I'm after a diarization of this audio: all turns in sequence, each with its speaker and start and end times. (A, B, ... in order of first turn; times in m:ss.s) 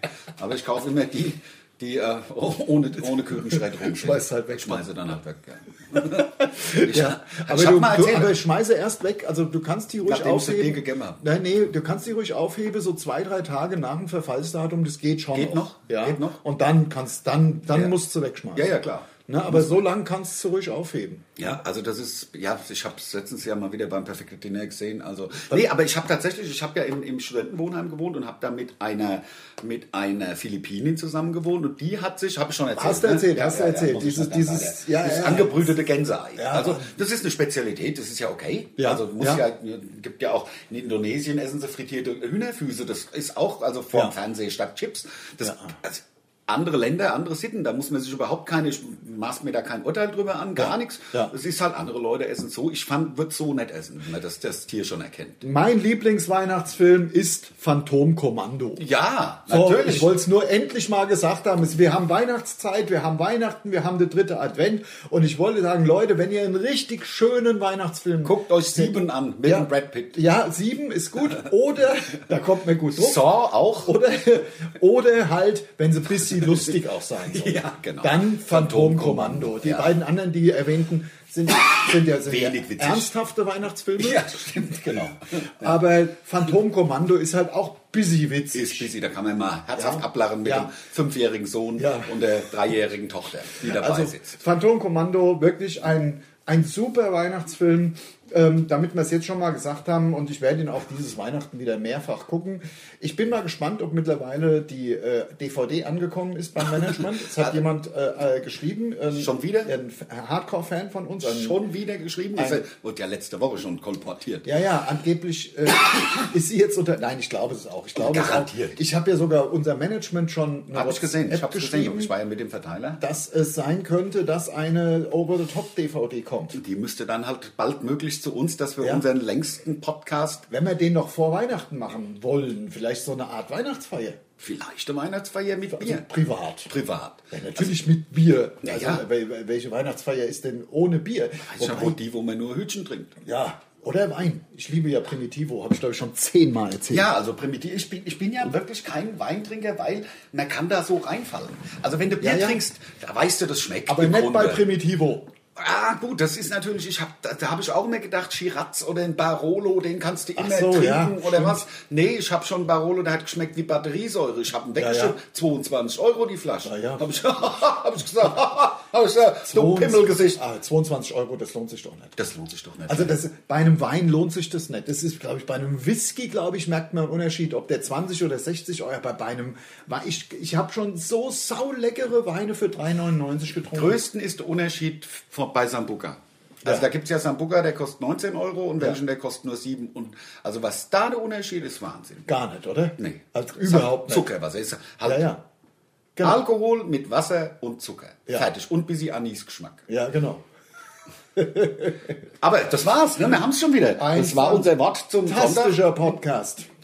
0:00.4-0:08.4 A
0:03.5-0:04.9 B
0:06.4-0:21.2 B
0:10.0-0:11.2 A
0:15.3-0:16.4 A
0:18.6-0:19.8 A
0:21.4-0:55.4 A
0:32.7-0:35.7 B
0:36.4-0:36.9 B
0:38.8-0:39.4 B
0:45.4-0:45.7 B
0:50.6-0:51.3 B
0:55.4-0:58.8 B
0:58.8-1:00.1 A
0:59.5-1:13.3 B
1:08.2-1:10.2 A
1:12.9-1:14.0 A
1:13.9-1:24.4 B
1:17.3-1:20.0 A
1:22.3-1:23.1 A
1:24.0-1:25.8 A
1:25.5-1:28.9 B
1:28.5-1:34.4 A
1:29.8-1:30.7 B
1:31.8-1:32.1 B
1:33.6-1:51.6 B
1:49.1-1:49.7 A
1:51.2-1:54.5 A
1:52.4-1:52.6 B
1:54.4-2:02.1 B
1:58.0-1:58.8 A
2:00.7-2:03.0 A
2:03.0-2:06.6 B
2:06.5-2:10.4 A
2:10.5-2:14.2 B
2:14.4-2:16.1 A
2:15.7-2:16.7 B
2:16.7-2:17.3 A
2:17.3-2:22.0 B
2:18.6-2:19.0 A
2:21.4-2:23.1 A
2:23.2-2:27.1 B
2:26.9-2:34.6 A
2:32.2-2:32.6 B
2:33.9-2:35.3 B
2:35.6-2:50.4 A
2:40.4-2:41.6 B
2:44.8-2:45.2 B
2:46.6-2:47.1 B
2:49.5-2:52.1 B
2:52.2-2:53.2 A
2:52.9-3:04.0 B
3:03.7-3:12.3 A
3:12.3-3:14.3 B
3:13.0-3:15.3 A
3:15.0-3:15.4 B
3:16.2-3:16.4 B
3:16.2-3:19.9 A
3:19.9-3:20.4 B
3:21.4-3:22.1 B
3:22.4-3:25.8 A
3:24.0-3:24.7 B
3:25.2-3:26.7 B